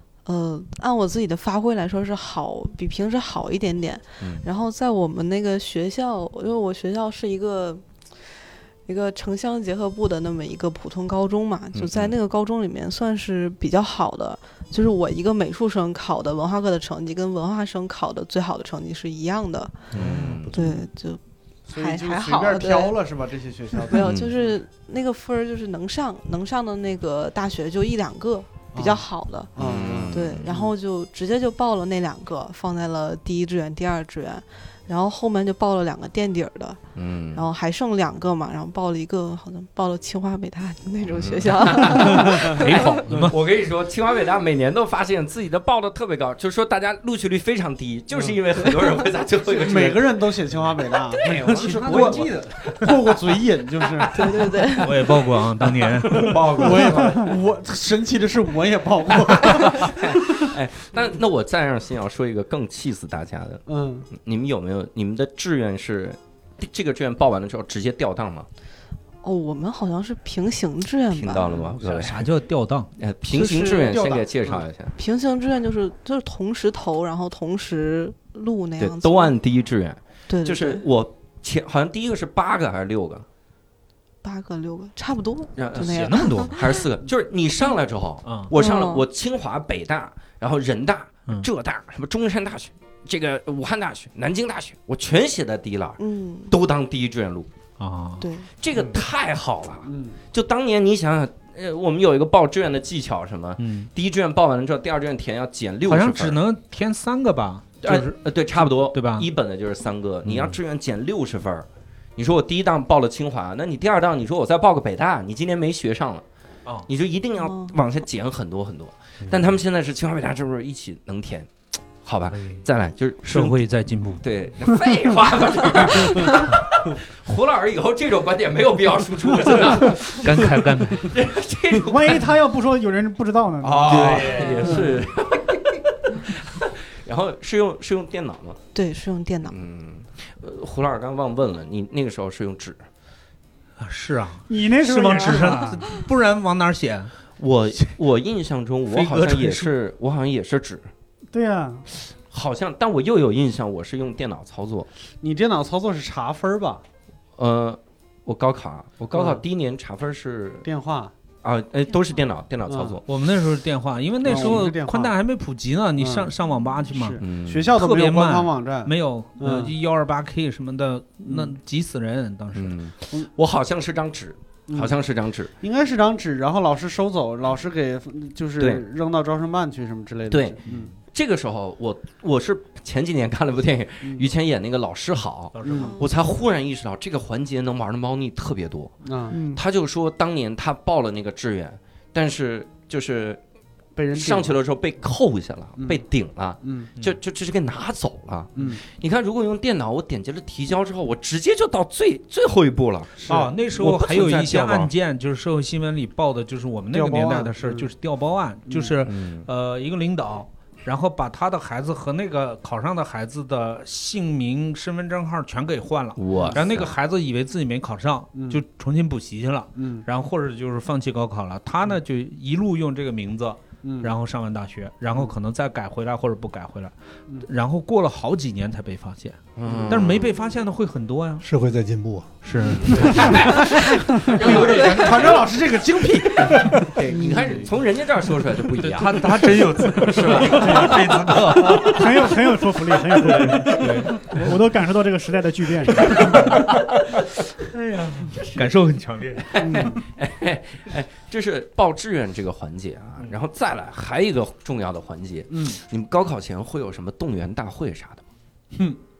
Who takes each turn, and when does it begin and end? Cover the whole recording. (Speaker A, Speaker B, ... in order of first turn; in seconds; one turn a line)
Speaker A: 0.2-19.9
Speaker B: 11.7-12.1
Speaker B: 19.9-20.6
Speaker C: 19.9-20.4
Speaker D: 20.0-20.7
Speaker A: 20.5-22.9
Speaker C: 21.7-24.5
Speaker A: 23.8-36.8
Speaker B: 24.0-24.3
Speaker C: 28.7-29.0
Speaker C: 29.6-30.7
Speaker B: 29.6-30.5
Speaker B: 36.9-37.5
Speaker A: 37.3-43.0
Speaker B: 41.1-50.3
Speaker C: 42.0-42.5
Speaker E: 42.5-43.3
Speaker C: 49.5-54.1
Speaker B: 51.1-57.4
Speaker E: 51.5-52.8
Speaker A: 54.1-54.9
Speaker E: 54.8-56.9
Speaker C: 56.2-61.0
Speaker B: 59.3-68.5
Speaker C: 63.7-64.1
Speaker A: 69.2-71.7
Speaker B: 71.1-72.3
Speaker E: 71.8-72.9
Speaker B: 73.0-75.0
Speaker C: 73.3-74.7
Speaker A: 75.0-79.3
Speaker B: 78.8-83.2
Speaker A: 80.3-80.8
Speaker A: 84.2-86.8
Speaker B: 85.5-97.5
Speaker E: 85.7-86.6
Speaker E: 88.2-88.5
Speaker A: 88.5-89.0
Speaker A: 96.0-96.5
Speaker E: 97.8-98.2
Speaker A: 98.2-98.5
Speaker B: 98.6-106.4
Speaker C: 99.8-100.2
Speaker E: 103.6-103.9
Speaker E: 105.9-109.3
Speaker B: 107.8-116.2
Speaker B: 116.9-121.5
Speaker A: 117.4-117.7
Speaker B: 122.0-123.5
Speaker E: 122.3-122.6
Speaker E: 123.2-124.2
Speaker B: 124.2-132.3
Speaker C: 125.9-126.2
Speaker E: 126.2-126.6
Speaker E: 130.1-131.2
Speaker F: 131.8-134.4
Speaker B: 133.6-138.6
Speaker C: 133.8-135.0
Speaker A: 134.3-134.8
Speaker A: 138.7-139.6
Speaker B: 139.5-142.8
Speaker E: 143.8-147.1
Speaker F: 144.5-146.0
Speaker B: 147.4-150.9
Speaker E: 148.9-149.7
Speaker F: 151.3-151.8
Speaker B: 151.9-154.9
Speaker C: 155.2-156.8
Speaker B: 157.4-160.7
Speaker C: 159.1-159.4
Speaker C: 160.6-161.1
Speaker B: 161.4-163.0
Speaker C: 162.7-163.0
Speaker E: 163.1-172.8
Speaker C: 164.2-165.1
Speaker C: 166.0-166.3
Speaker C: 166.9-169.7
Speaker B: 167.2-167.7
Speaker C: 171.2-171.5
Speaker B: 172.5-175.5
Speaker C: 174.7-174.9
Speaker C: 175.6-180.9
Speaker B: 178.6-178.8
Speaker B: 180.3-180.6
Speaker B: 181.1-193.4
Speaker C: 184.0-184.3
Speaker E: 185.5-185.9
Speaker C: 185.6-185.9
Speaker A: 185.7-186.1
Speaker C: 189.1-189.4
Speaker F: 189.3-189.6
Speaker C: 193.9-194.6
Speaker B: 194.1-204.9
Speaker C: 195.8-196.0
Speaker C: 196.6-196.9
Speaker C: 198.6-198.8
Speaker E: 203.2-231.4
Speaker C: 203.3-203.6
Speaker C: 206.9-207.9
Speaker C: 208.7-209.0
Speaker B: 209.0-209.5
Speaker B: 216.2-216.9
Speaker C: 216.3-216.8
Speaker C: 218.3-218.6
Speaker C: 219.8-220.1
Speaker C: 223.8-224.1
Speaker B: 229.6-230.3
Speaker C: 229.7-230.0
Speaker D: 231.4-232.6
Speaker E: 232.4-233.7
Speaker C: 232.6-237.7
Speaker B: 232.8-235.6
Speaker E: 234.4-235.2
Speaker B: 236.2-241.9
Speaker F: 237.1-237.6
Speaker E: 238.8-242.3
Speaker C: 239.8-241.9
Speaker F: 240.6-241.0
Speaker F: 241.8-246.6
Speaker E: 243.2-244.6
Speaker B: 246.0-246.8
Speaker E: 246.0-249.9
Speaker B: 248.2-248.7
Speaker B: 249.4-258.2
Speaker F: 249.6-250.0
Speaker C: 255.5-255.8